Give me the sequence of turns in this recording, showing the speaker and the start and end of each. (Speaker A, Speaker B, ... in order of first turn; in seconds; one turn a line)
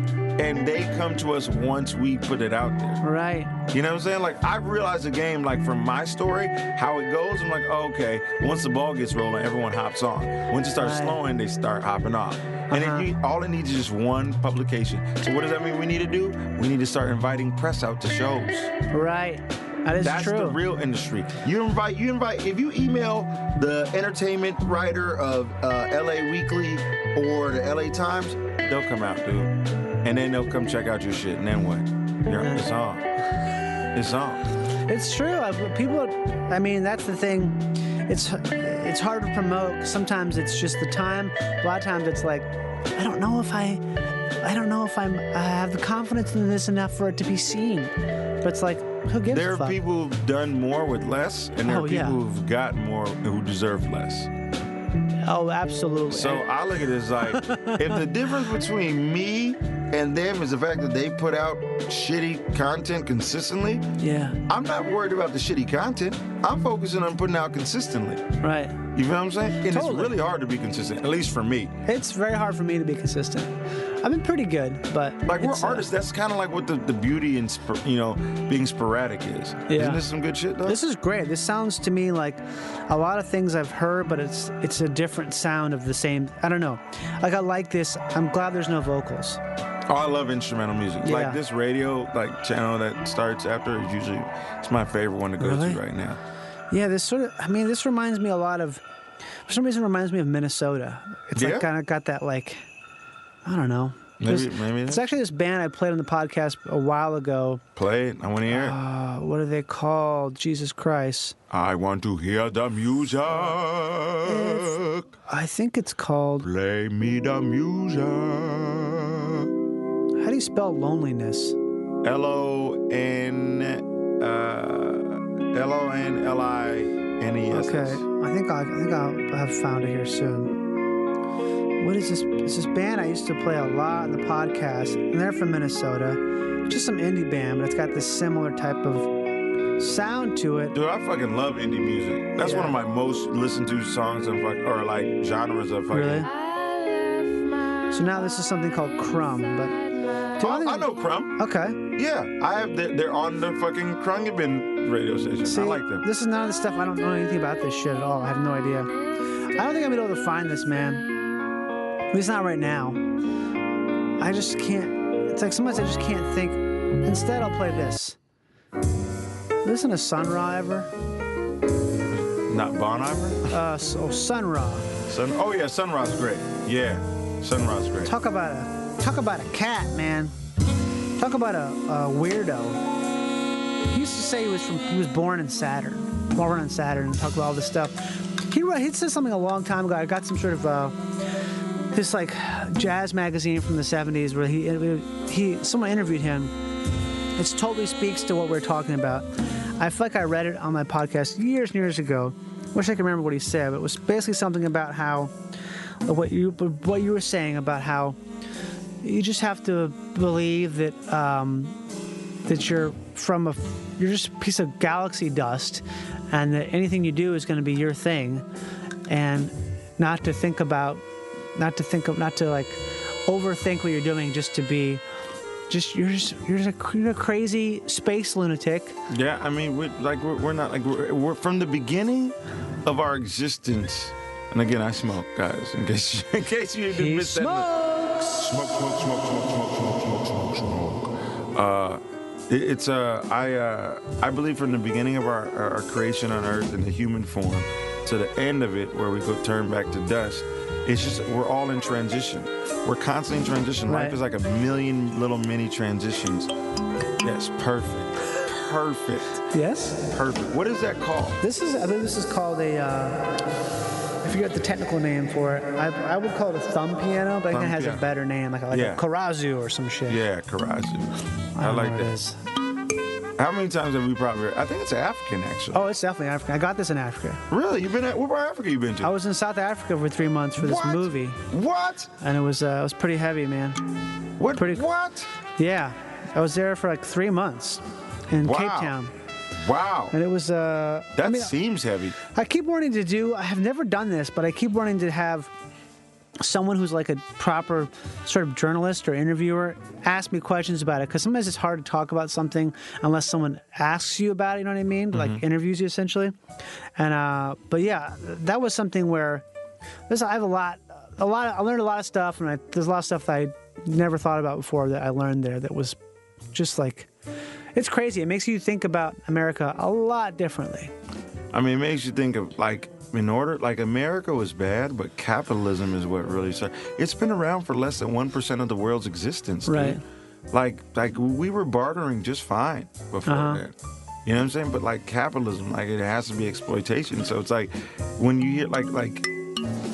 Speaker A: 0.4-3.0
Speaker B: 3.0-3.5
Speaker A: 3.7-18.7
Speaker B: 10.8-11.2
Speaker B: 12.7-13.1
Speaker B: 18.9-20.6
Speaker A: 20.0-29.5
Speaker A: 30.0-33.0
Speaker B: 32.4-32.7
Speaker A: 34.0-34.4
Speaker B: 34.9-43.8
Speaker B: 44.4-49.8
Speaker A: 49.3-54.3
Speaker B: 51.6-52.2
Speaker B: 55.2-56.5
Speaker A: 56.1-63.9
Speaker B: 57.3-58.0
Speaker B: 64.0-64.4
Speaker A: 64.5-68.3
Speaker B: 68.4-68.8
Speaker A: 69.0-71.8
Speaker B: 69.7-70.1
Speaker B: 71.9-75.9
Speaker A: 75.2-80.8
Speaker B: 79.7-80.0
Speaker B: 80.6-89.4
Speaker A: 89.9-96.2
Speaker B: 91.0-91.4
Speaker B: 95.4-95.8
Speaker B: 96.7-98.8
Speaker B: 99.5-102.6
Speaker A: 101.3-101.7
Speaker B: 103.5-107.6
Speaker A: 104.2-105.1
Speaker A: 107.8-108.8
Speaker B: 108.5-111.3
Speaker A: 111.5-115.1
Speaker B: 114.2-116.5
Speaker A: 116.4-119.5
Speaker B: 120.2-121.6
Speaker A: 122.0-128.1
Speaker B: 127.5-130.6
Speaker B: 131.8-139.1
Speaker B: 139.8-140.8
Speaker A: 140.7-146.3
Speaker B: 142.4-142.8
Speaker B: 145.9-146.3
Speaker B: 147.9-149.8
Speaker B: 150.4-151.8
Speaker A: 150.4-151.3
Speaker A: 152.0-156.1
Speaker B: 155.4-158.9
Speaker B: 159.6-161.1
Speaker B: 162.1-163.0
Speaker B: 164.2-168.2
Speaker B: 169.6-170.9
Speaker A: 172.5-173.5
Speaker B: 173.5-174.9
Speaker A: 175.1-178.1
Speaker B: 178.0-180.3
Speaker B: 181.2-182.8
Speaker B: 183.9-191.0
Speaker B: 191.9-196.5
Speaker B: 197.4-199.3
Speaker B: 199.8-205.3
Speaker B: 206.1-208.2
Speaker B: 209.0-211.8
Speaker B: 212.5-218.5
Speaker B: 219.1-221.0
Speaker B: 221.6-225.0
Speaker B: 225.7-228.9
Speaker A: 229.1-256.5
Speaker B: 236.9-238.2
Speaker B: 253.9-254.2
Speaker A: 257.2-259.4
Speaker B: 259.5-260.0
Speaker A: 260.1-261.4
Speaker B: 261.4-263.3
Speaker B: 264.2-270.2
Speaker A: 267.5-268.0
Speaker A: 268.7-269.0
Speaker A: 270.1-272.2
Speaker B: 271.6-272.4
Speaker A: 273.4-275.8
Speaker B: 275.7-277.4
Speaker A: 277.5-279.1
Speaker B: 279.0-281.4
Speaker A: 280.6-282.1
Speaker B: 282.2-283.8
Speaker A: 284.4-285.3
Speaker B: 284.6-284.9
Speaker B: 285.6-289.1
Speaker A: 288.4-288.9
Speaker A: 289.6-290.1
Speaker B: 290.1-291.5
Speaker A: 291.2-292.1
Speaker B: 292.2-295.5
Speaker B: 296.4-306.4
Speaker A: 305.1-305.4
Speaker B: 307.0-309.4
Speaker B: 310.1-316.0
Speaker B: 316.5-317.1
Speaker B: 317.8-320.9
Speaker A: 321.5-330.0
Speaker B: 329.7-330.0
Speaker A: 330.5-333.7
Speaker B: 333.3-333.6
Speaker A: 334.3-339.3